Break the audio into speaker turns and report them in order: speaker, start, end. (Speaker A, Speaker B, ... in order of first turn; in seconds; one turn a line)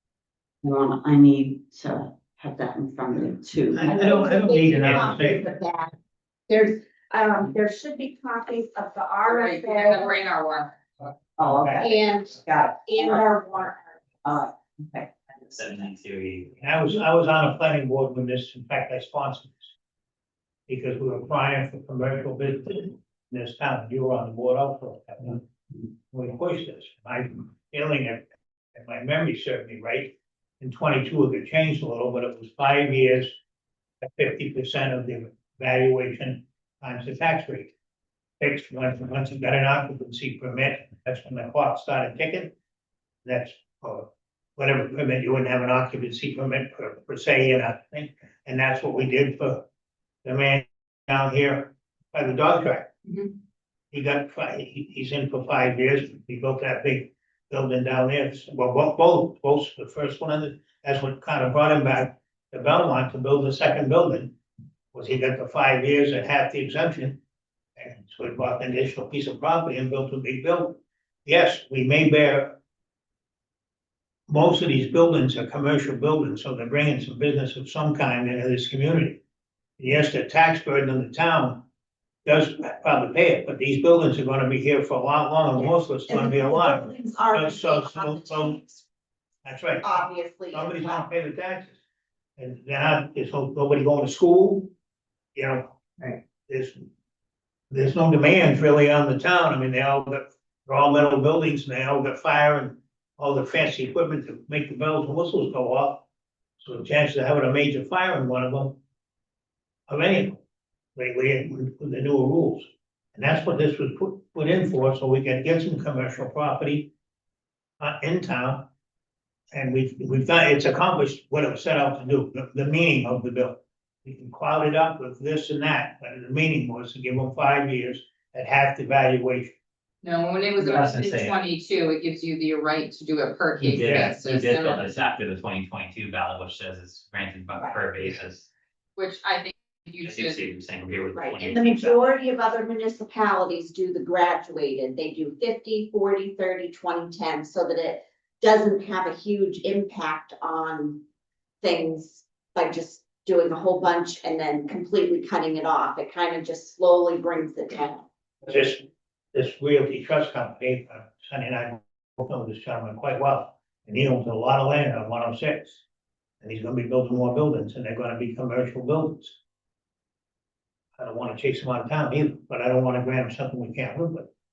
Speaker A: 0.6-4.2
Speaker B: 3.7-5.9
Speaker C: 3.7-5.5
Speaker B: 6.5-10.1
Speaker D: 9.2-11.1
Speaker A: 11.4-13.3
Speaker C: 11.4-11.8
Speaker B: 11.8-14.0
Speaker A: 14.2-15.1
Speaker E: 15.5-16.6
Speaker C: 16.6-19.7
Speaker C: 20.7-25.4
Speaker C: 26.1-33.4
Speaker C: 34.0-37.7
Speaker C: 38.4-42.5
Speaker C: 43.2-49.6
Speaker C: 50.2-52.9
Speaker C: 53.9-64.3
Speaker C: 64.9-67.2
Speaker C: 67.8-72.6
Speaker C: 74.3-79.2
Speaker C: 79.8-81.6
Speaker C: 82.2-88.6
Speaker B: 85.6-88.8
Speaker C: 89.5-90.0
Speaker B: 89.8-91.0
Speaker C: 90.5-91.8
Speaker C: 92.4-94.7
Speaker C: 95.3-96.8
Speaker C: 97.7-106.1
Speaker C: 106.6-108.8
Speaker C: 109.9-110.4
Speaker C: 111.0-116.9
Speaker C: 117.8-118.7
Speaker C: 119.5-129.5
Speaker D: 130.0-134.9
Speaker E: 130.6-131.3
Speaker E: 133.6-138.5
Speaker D: 139.0-140.4
Speaker E: 140.0-142.1
Speaker B: 141.2-151.0
Speaker B: 151.6-158.1
Speaker C: 158.5-165.8
Speaker C: 166.4-169.4
Speaker C: 171.0-174.3